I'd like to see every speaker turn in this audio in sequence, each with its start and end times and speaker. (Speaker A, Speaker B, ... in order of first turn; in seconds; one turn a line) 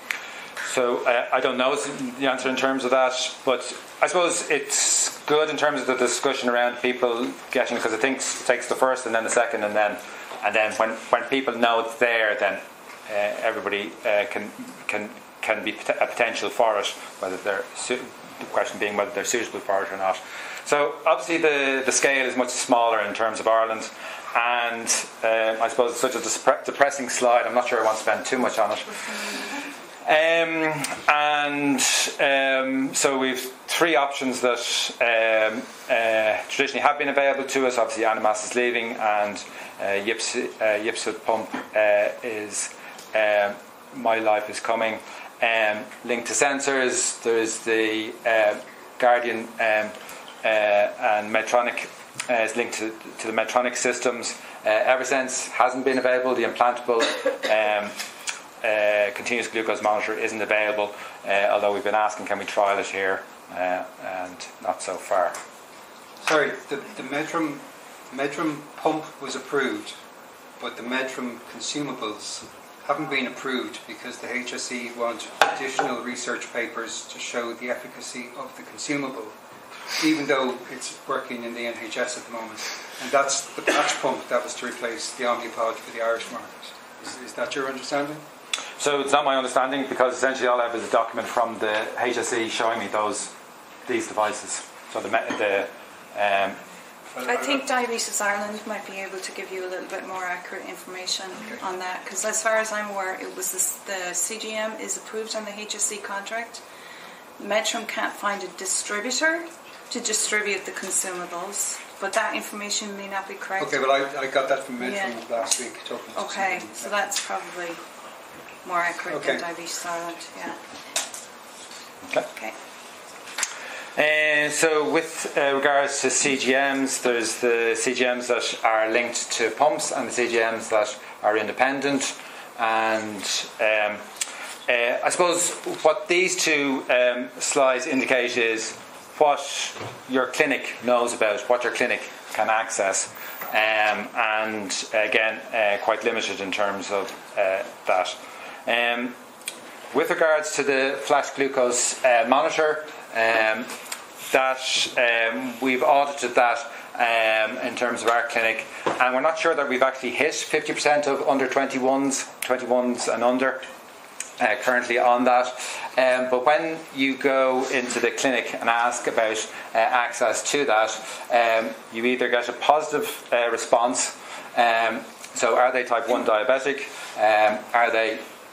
Speaker A: 0.7-29.5
Speaker A: 30.0-58.0
Speaker A: 58.6-65.3
Speaker B: 66.2-70.0
Speaker B: 70.6-79.3
Speaker B: 80.0-88.2
Speaker A: 88.8-93.3
Speaker A: 93.8-96.6
Speaker C: 97.2-106.6
Speaker C: 107.4-113.8
Speaker B: 113.6-116.9
Speaker C: 114.8-115.2
Speaker C: 116.1-117.8
Speaker C: 118.6-120.6
Speaker B: 119.1-119.5
Speaker A: 124.0-134.0
Speaker A: 134.7-149.2
Speaker A: 149.9-153.7
Speaker A: 154.3-163.6
Speaker A: 164.4-178.2